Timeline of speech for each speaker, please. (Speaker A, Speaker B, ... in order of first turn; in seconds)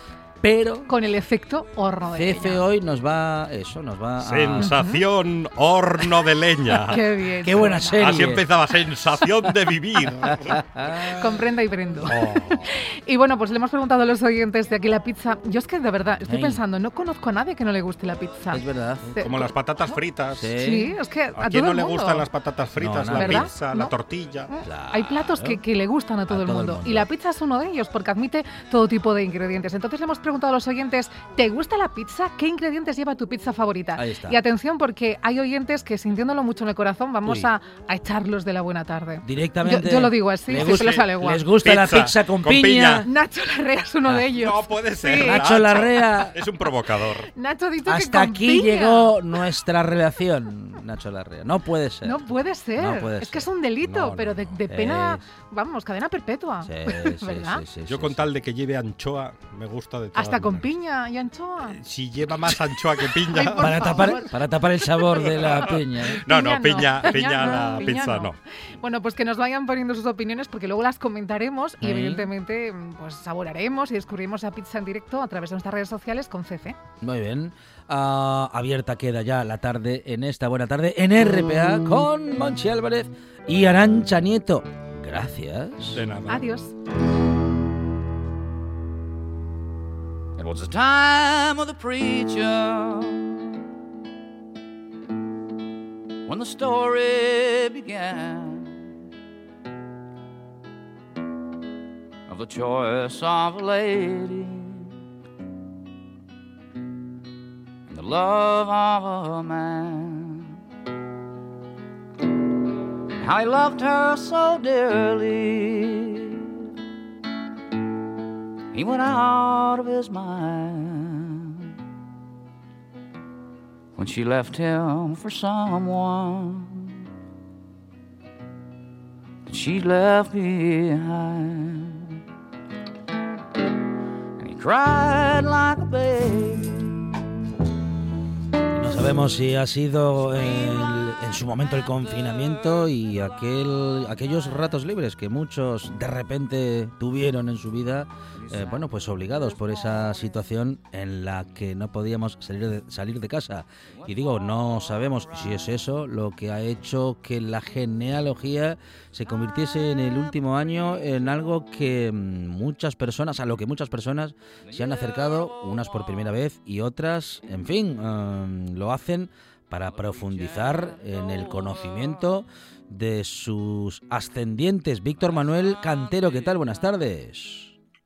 Speaker A: 0.4-0.9, 2.1-4.7, 7.4-8.4, 10.3-11.2, 16.2-16.6, 18.5-19.2, 20.3-20.9, 22.8-23.5, 24.6-25.6, 26.3-27.1, 34.0-34.4, 39.2-43.1, 45.2-46.4, 47.9-52.2, 52.8-55.2, 56.6-58.2, 63.6-66.2, 71.8-72.3, 77.0-86.0, 138.7-177.7
Speaker B: 0.9-2.6, 4.6-5.0, 6.7-8.3, 10.9-18.6, 19.1-20.0, 20.6-22.3, 23.1-23.9, 24.5-41.4, 43.0-45.4, 47.3-49.2, 52.0-57.6, 60.1-61.8, 63.2-64.3, 66.2-76.8, 86.3-86.7
Speaker C: 4.2-7.0, 8.0-10.6, 12.1-12.7, 19.2-20.5, 21.3-24.5, 40.5-41.1, 41.6-43.0, 44.4-47.3, 57.9-60.7, 61.6-64.0, 65.2-68.3, 85.9-86.4
Speaker D: 90.4-93.4, 96.2-98.8, 102.3-104.9, 107.9-110.5, 113.2-116.5, 118.7-121.7, 124.0-126.9, 129.5-132.2, 134.4-137.2, 148.3-150.4, 153.9-155.7, 159.8-160.3, 164.6-166.4, 169.8-172.3, 175.2-176.9